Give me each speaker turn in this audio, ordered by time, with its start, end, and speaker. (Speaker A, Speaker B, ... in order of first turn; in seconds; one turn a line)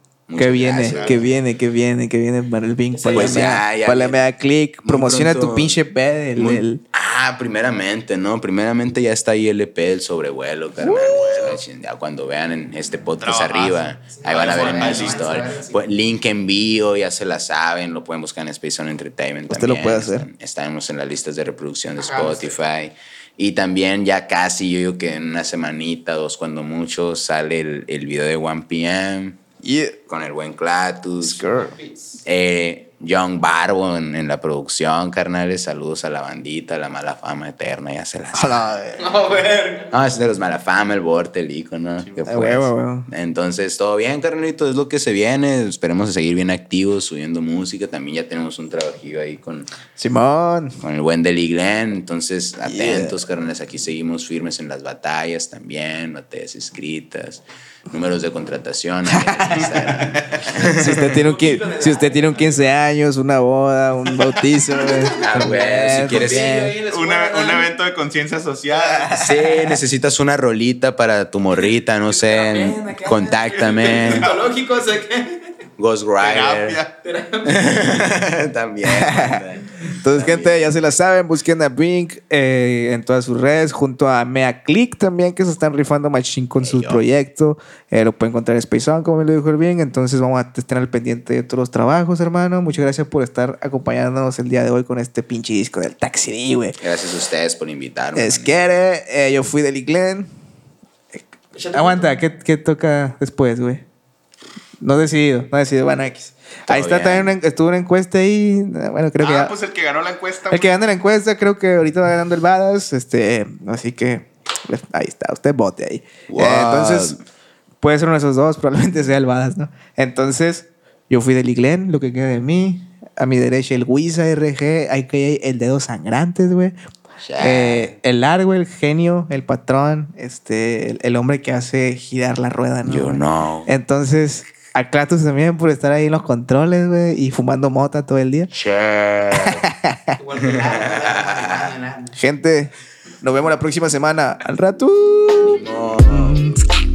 Speaker A: 0.3-1.4
Speaker B: 0.3-6.8
Speaker C: 0.7-1.2
Speaker D: 2.9-3.6
Speaker A: 3.1-4.2
Speaker A: 4.8-5.8
Speaker A: 6.3-29.4
Speaker B: 10.8-11.5
Speaker D: 10.9-11.5
Speaker C: 13.2-15.6
Speaker D: 14.1-15.8
Speaker B: 19.5-20.3
Speaker D: 21.9-22.6
Speaker B: 29.6-30.0
Speaker A: 30.1-31.5
Speaker B: 31.2-31.7
Speaker D: 31.5-32.2
Speaker A: 32.2-38.7
Speaker B: 38.3-39.1
Speaker D: 39.0-40.0
Speaker A: 39.9-49.7
Speaker B: 42.2-43.1
Speaker B: 50.0-50.8
Speaker A: 50.8-61.2
Speaker B: 52.6-53.2
Speaker B: 59.1-66.7
Speaker D: 60.8-62.6
Speaker D: 64.7-67.7
Speaker A: 65.2-66.7
Speaker C: 66.8-69.2
Speaker B: 68.7-69.8
Speaker A: 69.1-74.3
Speaker D: 72.0-75.6
Speaker C: 73.4-74.5
Speaker A: 75.8-76.8
Speaker C: 76.2-77.0
Speaker D: 77.0-77.8
Speaker A: 77.4-80.7
Speaker B: 78.8-96.8
Speaker A: 86.6-87.0
Speaker A: 96.8-98.6
Speaker B: 98.1-100.3
Speaker D: 101.5-102.2
Speaker B: 101.7-103.8
Speaker B: 104.8-109.5
Speaker A: 106.7-107.4
Speaker C: 109.2-110.8
Speaker B: 110.5-117.2
Speaker A: 116.3-117.2
Speaker B: 117.8-126.7
Speaker A: 127.2-128.0
Speaker B: 127.4-138.5
Speaker A: 132.8-133.7
Speaker A: 138.5-139.7
Speaker B: 139.3-140.1
Speaker D: 140.2-142.2
Speaker A: 140.3-141.8
Speaker B: 142.1-146.6
Speaker A: 145.4-146.4